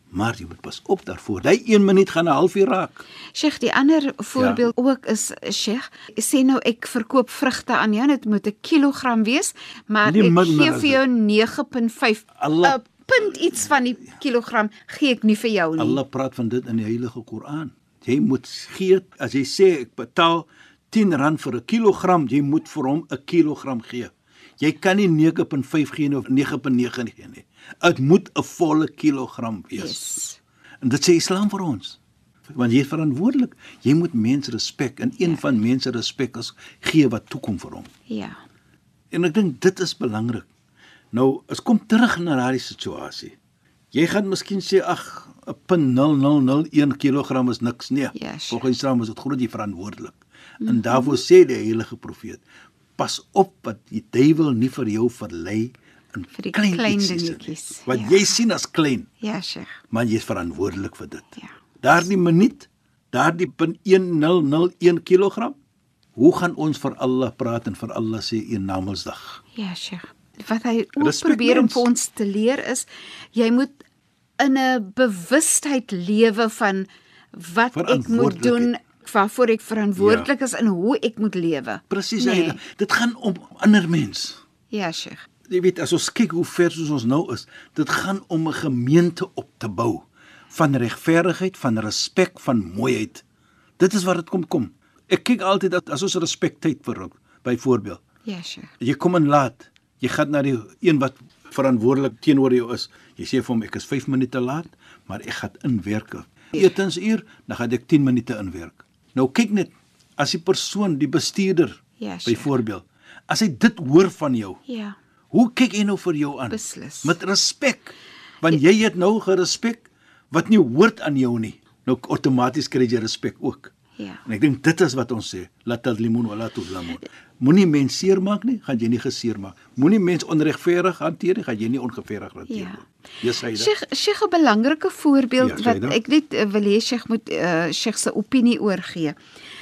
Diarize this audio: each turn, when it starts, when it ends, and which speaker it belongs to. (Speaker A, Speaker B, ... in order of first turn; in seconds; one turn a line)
Speaker A: 0.1-3.0
Speaker B: 3.3-16.0
Speaker A: 4.3-4.7
Speaker A: 10.0-11.0
Speaker A: 12.4-12.8
Speaker A: 15.8-30.1
Speaker B: 29.8-30.4
Speaker A: 30.8-32.0
Speaker A: 32.5-37.9
Speaker B: 38.1-38.4
Speaker A: 39.1-40.5
Speaker A: 41.1-43.4
Speaker A: 43.9-52.4
Speaker B: 48.1-48.6
Speaker B: 50.6-51.2
Speaker A: 53.0-59.1
Speaker B: 56.3-58.4
Speaker B: 59.2-59.8
Speaker A: 59.9-65.5
Speaker A: 66.2-69.4
Speaker B: 69.5-73.8
Speaker A: 71.0-71.9
Speaker B: 74.4-82.6
Speaker A: 77.7-78.7
Speaker A: 80.0-80.3
Speaker A: 81.9-84.4
Speaker B: 84.7-85.2
Speaker A: 85.5-93.2
Speaker A: 93.8-98.0
Speaker B: 98.2-98.7
Speaker A: 98.8-114.6
Speaker B: 112.0-112.5
Speaker B: 114.7-115.0
Speaker A: 115.3-123.7
Speaker B: 116.5-117.2
Speaker B: 124.0-124.2
Speaker A: 124.2-133.7
Speaker B: 132.5-132.8
Speaker B: 133.5-139.2
Speaker A: 135.4-136.0